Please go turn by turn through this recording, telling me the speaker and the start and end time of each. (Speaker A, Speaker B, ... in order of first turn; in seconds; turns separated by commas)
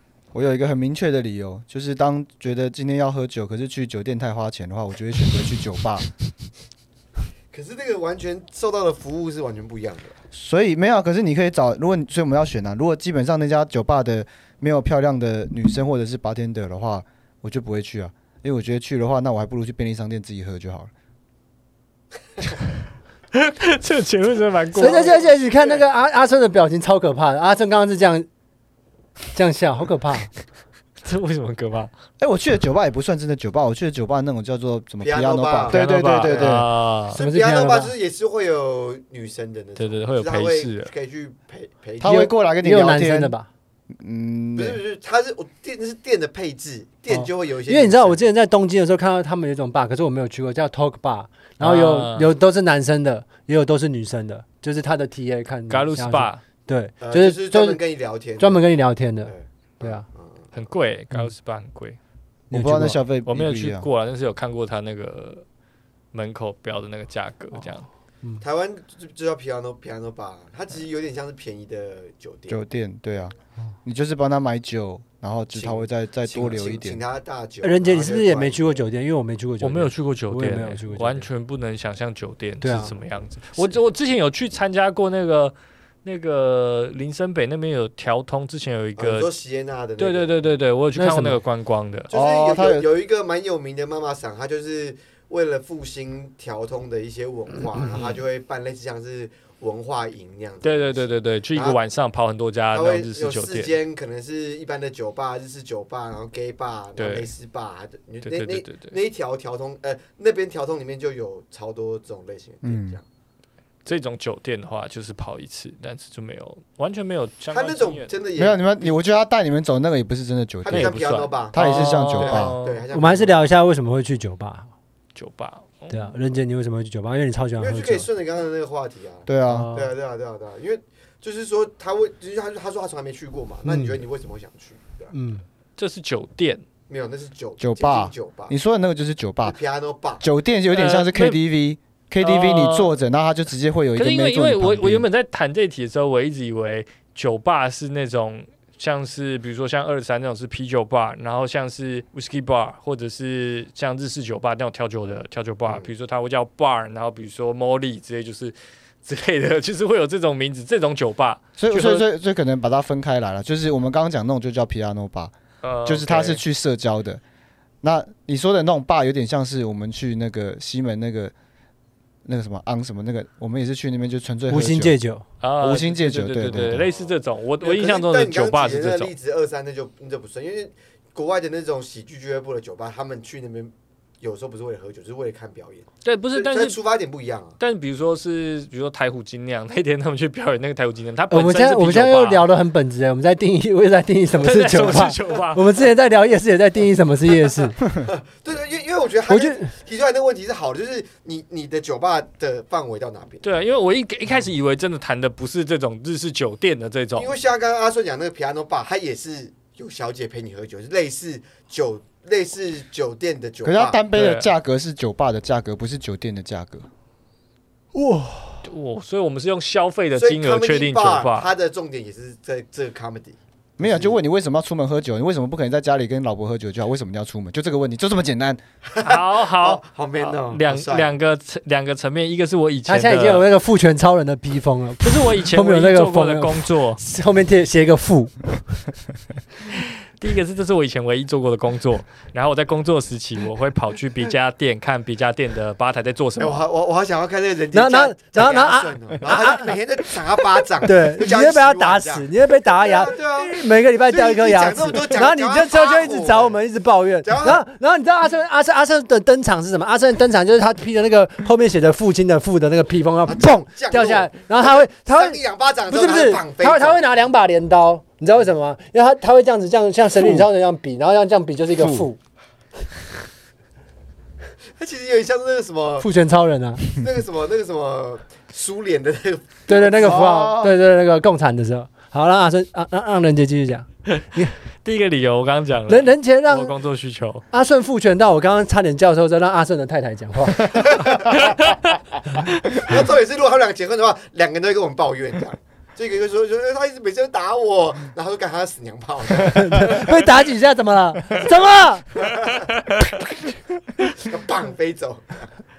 Speaker A: 0.3-6.1, Speaker B: 7.5-10.2, Speaker A: 10.3-20.9, Speaker C: 23.3-25.2, Speaker D: 24.8-28.3, Speaker B: 24.8-25.8, Speaker D: 29.3-30.3, Speaker C: 31.0-31.9, Speaker A: 32.2-36.7, Speaker B: 35.0-36.6, Speaker C: 35.7-37.2, Speaker B: 37.1-42.3, Speaker D: 37.1-37.9, Speaker C: 39.8-40.9, Speaker A: 42.0-43.3, Speaker D: 42.0-43.5, Speaker A: 44.0-44.8, Speaker B: 44.6-48.2, Speaker D: 47.1-57.8, Speaker C: 51.6-52.3, Speaker C: 55.7-56.4, Speaker B: 57.0-58.6, Speaker D: 58.4-60.0, Speaker B: 59.3-60.5, Speaker C: 60.5-62.0, Speaker D: 62.5-63.0, Speaker A: 62.5-63.9, Speaker C: 63.3-65.4, Speaker C: 66.1-67.9, Speaker B: 68.4-72.6, Speaker A: 72.5-73.3, Speaker A: 73.8-77.0, Speaker B: 75.5-78.8, Speaker D: 77.6-81.3, Speaker C: 79.6-89.3, Speaker D: 82.6-82.9, Speaker B: 89.0-90.3, Speaker C: 90.0-92.1, Speaker D: 91.0-91.4, Speaker B: 92.1-101.8, Speaker A: 92.1-92.9, Speaker C: 97.9-98.2, Speaker C: 100.6-103.8, Speaker B: 102.7-113.0, Speaker C: 107.0-107.3, Speaker C: 108.2-108.9, Speaker A: 112.6-113.0, Speaker C: 113.8-118.1, Speaker B: 117.5-119.0, Speaker A: 118.4-121.0, Speaker B: 120.7-123.4, Speaker C: 120.7-122.9, Speaker A: 121.5-122.6, Speaker D: 122.9-124.7, Speaker C: 125.2-126.1, Speaker D: 125.9-128.1, Speaker B: 127.6-135.1, Speaker A: 129.3-129.7, Speaker D: 129.5-129.9, Speaker D: 133.7-134.0, Speaker D: 135.1-135.4, Speaker C: 135.8-136.6, Speaker B: 136.9-138.6, Speaker A: 137.6-139.6, Speaker B: 139.4-140.2, Speaker A: 140.2-145.1, Speaker C: 140.7-141.4, Speaker C: 142.2-142.9, Speaker C: 144.0-162.1, Speaker A: 161.6-165.3, Speaker C: 165.6-166.4, Speaker A: 165.8-167.2, Speaker A: 167.8-171.3, Speaker A: 172.2-174.9, Speaker D: 174.5-175.2, Speaker C: 175.4-179.1, Speaker A: 175.6-176.9, Speaker B: 176.9-187.6, Speaker C: 186.0-186.8, Speaker C: 187.6-192.4, Speaker D: 191.3-197.8, Speaker C: 194.4-195.6, Speaker B: 198.0-203.4, Speaker D: 199.3-199.7, Speaker C: 203.4-207.3, Speaker B: 207.2-214.0, Speaker A: 213.6-216.9, Speaker C: 214.1-214.5, Speaker D: 217.9-218.6, Speaker C: 218.7-221.5, Speaker B: 220.2-224.2, Speaker A: 223.8-228.6, Speaker B: 228.9-231.2, Speaker C: 229.0-233.5, Speaker D: 232.9-238.5, Speaker C: 235.0-237.0, Speaker C: 239.7-246.7, Speaker B: 246.4-256.6, Speaker D: 247.7-249.7, Speaker D: 250.8-272.2, Speaker B: 257.2-257.6, Speaker B: 263.3-267.0, Speaker A: 270.2-270.5, Speaker A: 271.8-272.1, Speaker B: 274.8-276.1, Speaker D: 276.0-276.9, Speaker B: 276.9-280.2, Speaker D: 279.7-284.5, Speaker A: 280.0-280.8, Speaker C: 284.8-287.4, Speaker D: 285.9-286.7, Speaker D: 287.5-290.8, Speaker B: 290.8-291.6, Speaker B: 292.7-300.3, Speaker D: 299.4-302.1, Speaker B: 302.2-302.7, Speaker B: 304.2-305.5